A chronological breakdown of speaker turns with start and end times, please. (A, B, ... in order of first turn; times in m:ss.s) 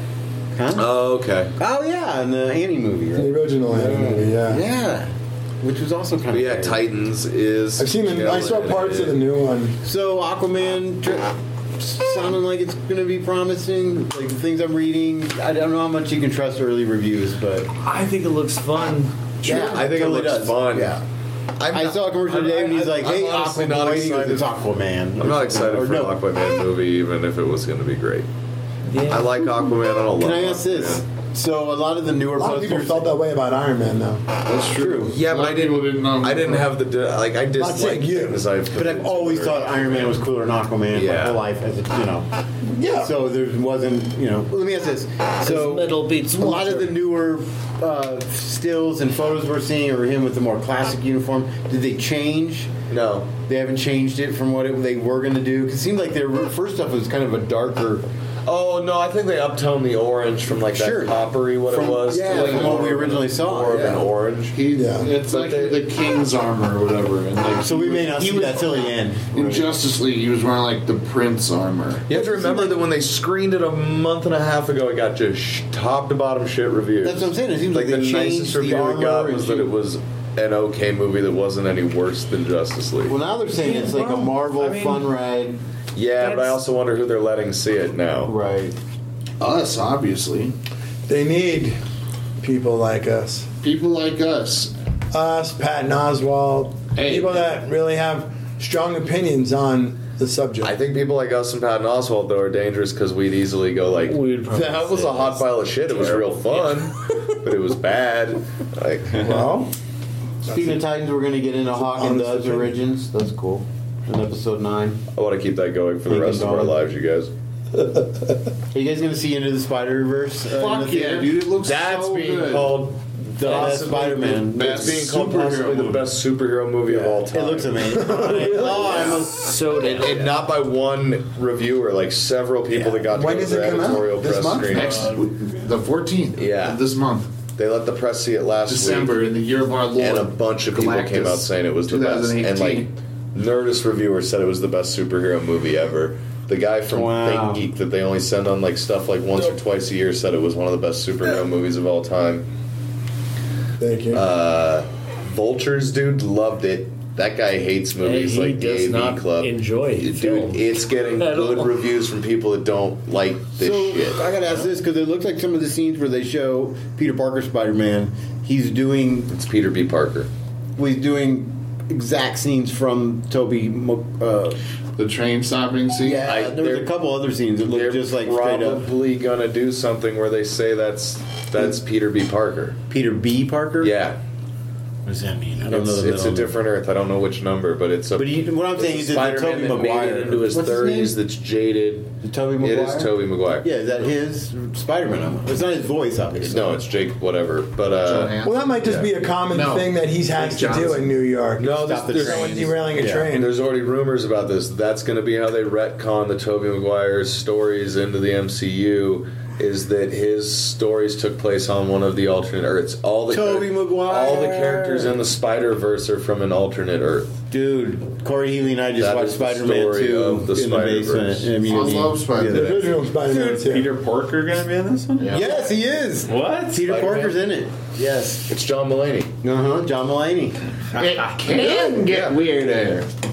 0:00.5-0:01.0 A
0:00.8-0:01.5 B
0:01.6-0:06.8 A
0:03.2-0:04.6 C
0:06.3-0:09.2 B
0:07.8-0:09.8 C
0:09.8-0:17.7 A
0:17.8-0:19.2 D
0:19.4-0:21.0 B
0:19.4-0:21.0 A
0:21.6-0:24.5 B
0:21.7-0:26.2 A
0:25.2-0:28.3 B
0:28.9-0:29.5 D
0:29.1-0:31.0 B
0:30.2-0:33.1 A
0:32.4-0:34.2 C
0:34.4-0:36.7 E
0:34.7-0:35.2 A
0:35.0-0:40.2 B
0:37.6-0:38.4 C
0:38.7-0:42.3 A
0:40.9-0:41.4 B
0:42.7-0:43.1 C
0:42.9-0:52.7 A
0:45.4-0:47.0 D
0:52.9-0:53.3 B
0:53.5-0:58.0 A
0:58.5-1:05.8 B
1:00.7-1:04.1 A
1:02.3-1:02.8 E
1:04.5-1:12.0 E
1:04.7-1:05.1 C
1:07.6-1:09.7 A
1:12.1-1:23.2 B
1:12.1-1:12.8 C
1:17.0-1:19.7 A
1:23.1-1:25.6 A
1:23.5-1:25.1 D
1:26.0-1:28.3 B
1:26.2-1:26.6 D
1:28.2-1:28.8 A
1:29.4-1:30.6 E
1:31.1-1:31.8 C
1:32.4-1:33.5 C
1:33.6-1:34.7 E
1:35.1-1:40.8 C
1:37.0-1:37.6 E
1:40.6-1:49.4 B
1:44.1-1:46.6 D
1:49.2-1:49.7 C
1:50.5-1:50.8 C
1:50.5-1:55.0 A
1:51.7-1:52.8 C
1:55.1-1:57.3 B
1:56.1-1:56.8 A
1:58.7-2:01.5 A
2:00.5-2:02.8 E
2:01.6-2:08.0 B
2:03.4-2:05.1 A
2:04.5-2:06.1 E
2:06.9-2:09.6 A
2:07.9-2:09.1 C
2:08.4-2:10.4 D
2:09.8-2:15.1 B
2:13.1-2:15.1 C
2:14.6-2:17.3 E
2:16.4-2:16.8 B
2:17.6-2:19.2 B
2:18.7-2:22.9 E
2:20.0-2:32.4 B
2:26.9-2:27.7 A
2:33.8-2:34.2 C
2:34.1-2:44.4 B
2:38.0-2:41.7 D
2:43.6-2:49.3 A
2:49.3-2:50.3 B
2:50.8-2:54.6 A
2:55.0-2:56.2 E
2:56.0-2:58.9 A
2:56.2-2:56.9 B
2:57.6-3:02.8 B
3:02.9-3:04.0 A
3:03.8-3:04.2 B
3:05.1-3:06.6 A
3:05.7-3:13.7 B
3:08.2-3:11.2 A
3:12.2-3:16.8 A
3:16.4-3:19.1 B
3:18.0-3:18.7 E
3:18.4-3:23.5 C
3:19.5-3:21.1 E
3:21.6-3:37.4 B
3:21.7-3:23.3 A
3:33.3-3:35.2 A
3:37.5-3:43.0 A
3:39.0-3:41.7 B
3:41.6-3:43.0 E
3:42.4-3:43.9 C
3:43.2-3:45.4 F
3:45.2-3:45.5 E
3:45.3-3:48.5 A
3:46.3-3:46.9 F
3:46.8-3:47.4 B
3:48.5-3:49.3 B
3:49.4-3:50.6 A
3:50.9-3:53.2 E
3:52.1-3:52.3 B